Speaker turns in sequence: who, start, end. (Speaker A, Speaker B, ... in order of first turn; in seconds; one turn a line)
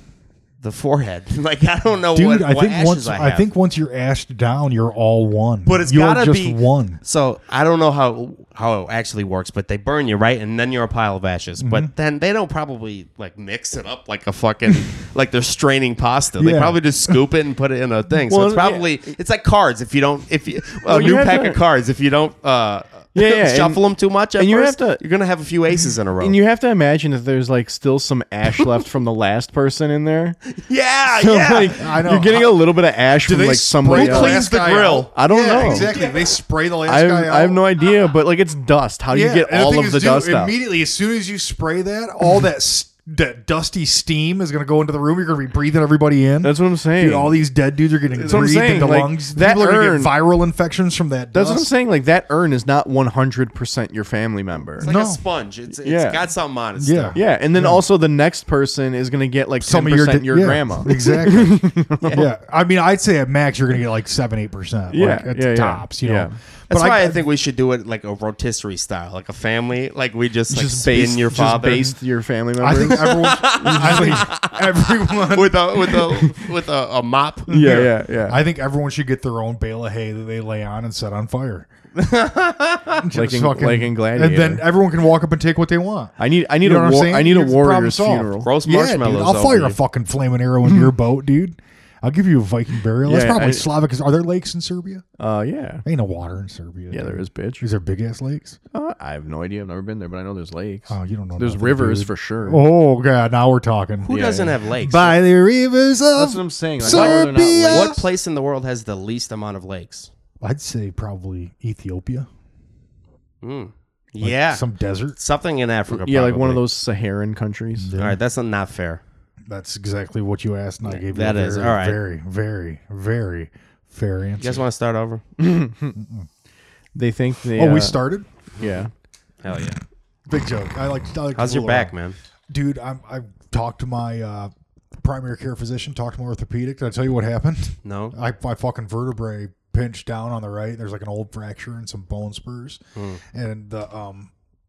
Speaker A: 0.6-3.4
Speaker B: 2.1-7.0
Speaker A: 5.7-26.4
Speaker B: 11.6-11.9
Speaker B: 16.4-17.2
Speaker C: 18.3-19.1
Speaker C: 20.8-21.6
Speaker C: 23.1-25.0
Speaker C: 26.2-30.6
Speaker A: 30.6-31.8
Speaker C: 31.1-34.4
Speaker B: 31.8-37.6
Speaker A: 33.8-36.3
Speaker C: 35.1-35.9
Speaker C: 36.9-40.5
Speaker B: 39.1-51.7
Speaker C: 46.4-47.4
Speaker C: 48.1-50.1
Speaker C: 51.3-54.9
Speaker A: 54.8-57.2
Speaker B: 54.8-55.2
Speaker C: 55.8-56.3
Speaker B: 56.8-57.9
Speaker C: 57.1-62.3
Speaker B: 59.6-67.2
Speaker A: 62.0-62.3
Speaker C: 64.9-66.4
Speaker A: 66.7-71.9
Speaker C: 70.5-74.3
Speaker B: 72.6-75.8
Speaker A: 73.1-77.9
Speaker C: 75.8-76.4
Speaker C: 77.5-78.4
Speaker B: 77.7-81.7
Speaker A: 82.0-83.1
Speaker B: 83.0-95.0
Speaker C: 83.1-84.6
Speaker C: 86.2-88.5
Speaker A: 88.4-89.8
Speaker C: 93.0-93.7
Speaker C: 95.2-95.8
Speaker B: 95.8-98.6
Speaker C: 96.9-97.7
Speaker C: 98.7-102.6
Speaker B: 100.9-104.1
Speaker A: 104.0-105.2
Speaker C: 104.1-104.6
Speaker B: 104.7-108.1
Speaker C: 106.1-108.0
Speaker A: 106.8-110.1
Speaker B: 110.4-112.3
Speaker A: 113.4-114.6
Speaker B: 114.2-115.2
Speaker A: 115.2-116.6
Speaker C: 115.9-117.9
Speaker B: 117.8-118.2
Speaker A: 118.0-119.0
Speaker B: 119.5-124.6
Speaker A: 120.8-122.0
Speaker A: 124.4-125.2
Speaker C: 125.4-126.0
Speaker B: 125.9-126.3
Speaker C: 126.9-128.0
Speaker B: 127.5-128.3
Speaker C: 128.6-128.9
Speaker A: 129.4-129.8
Speaker B: 130.3-131.9
Speaker A: 131.3-132.2
Speaker B: 132.5-144.3
Speaker A: 137.8-138.1
Speaker A: 142.9-143.2